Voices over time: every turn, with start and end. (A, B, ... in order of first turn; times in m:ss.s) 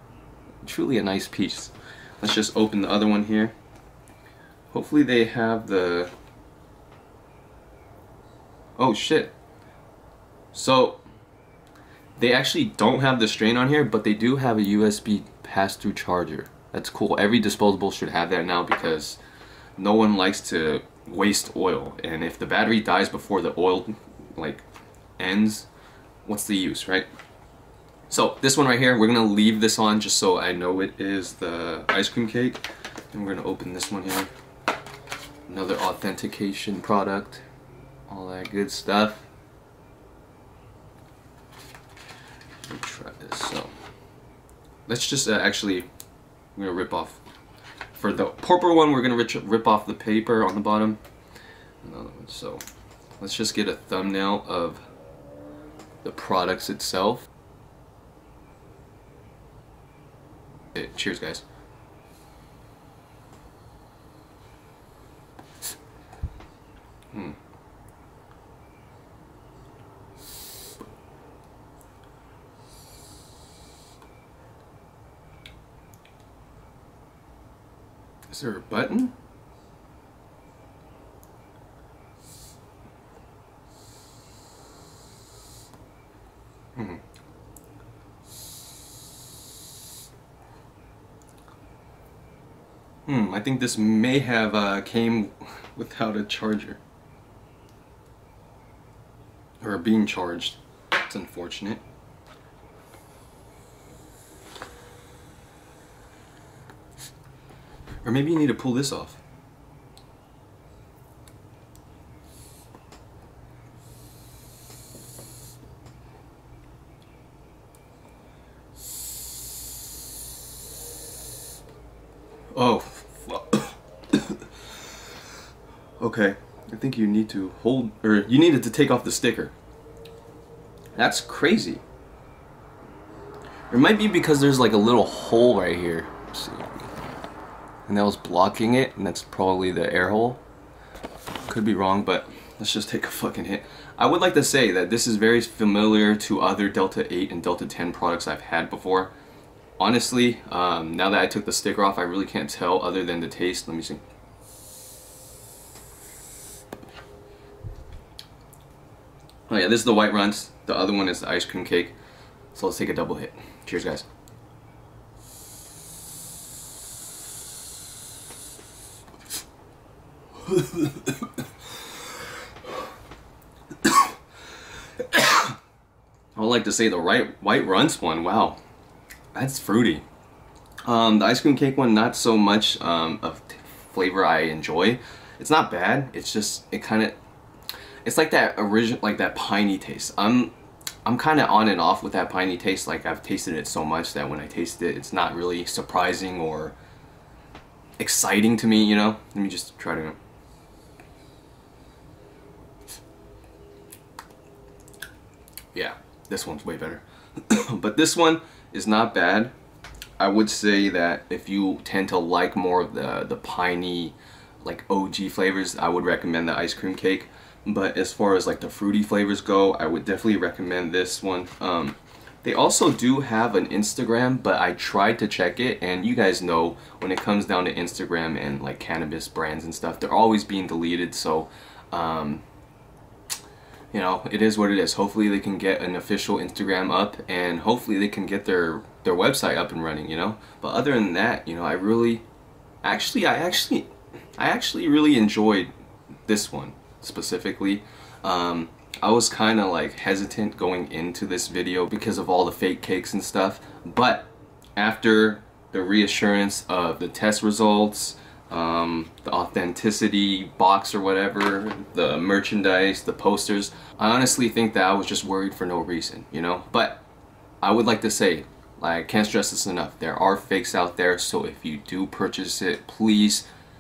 0:00.6-0:03.5 A
0:04.7-0:06.1 A
0:08.8-0:09.4 A
0:10.5-0:11.0 A
0:12.2-0:19.2 A
0:19.8-0:24.6 A
0:25.2-0:25.7 A
0:26.2-0:27.1 A
0:28.1-0:34.3 A
0:35.5-0:37.4 A
0:38.1-0:39.3 A
0:42.7-0:43.7 A
0:44.9-0:45.9 A
0:46.6-0:47.2 A
0:48.0-0:51.0 A
0:51.8-0:52.6 A
0:53.2-0:54.8 A
0:56.0-0:57.3 A
1:00.8-1:01.4 A
1:18.3-1:19.1 A
1:26.8-1:27.0 A
1:33.1-1:36.8 A
1:39.6-1:41.8 A
1:48.0-1:49.2 A
2:02.5-2:04.5 A
2:06.0-2:09.5 A
2:11.0-2:11.8 A
2:13.7-2:16.9 A
2:17.9-2:20.4 A
2:21.5-2:29.1 A
2:29.8-2:34.0 A
2:39.5-2:41.9 A
2:42.5-2:44.1 A
2:55.0-2:55.6 A
2:56.4-2:58.6 A
2:59.3-3:00.0 A
3:00.8-3:07.2 A
3:08.0-3:10.5 A
3:11.0-3:16.8 A
3:18.0-3:20.2 A
3:25.7-3:29.5 A
3:30.2-3:52.4 A
3:53.9-4:02.2 A
4:02.8-4:05.7 A
4:06.3-4:27.0 A
4:27.6-4:33.5 A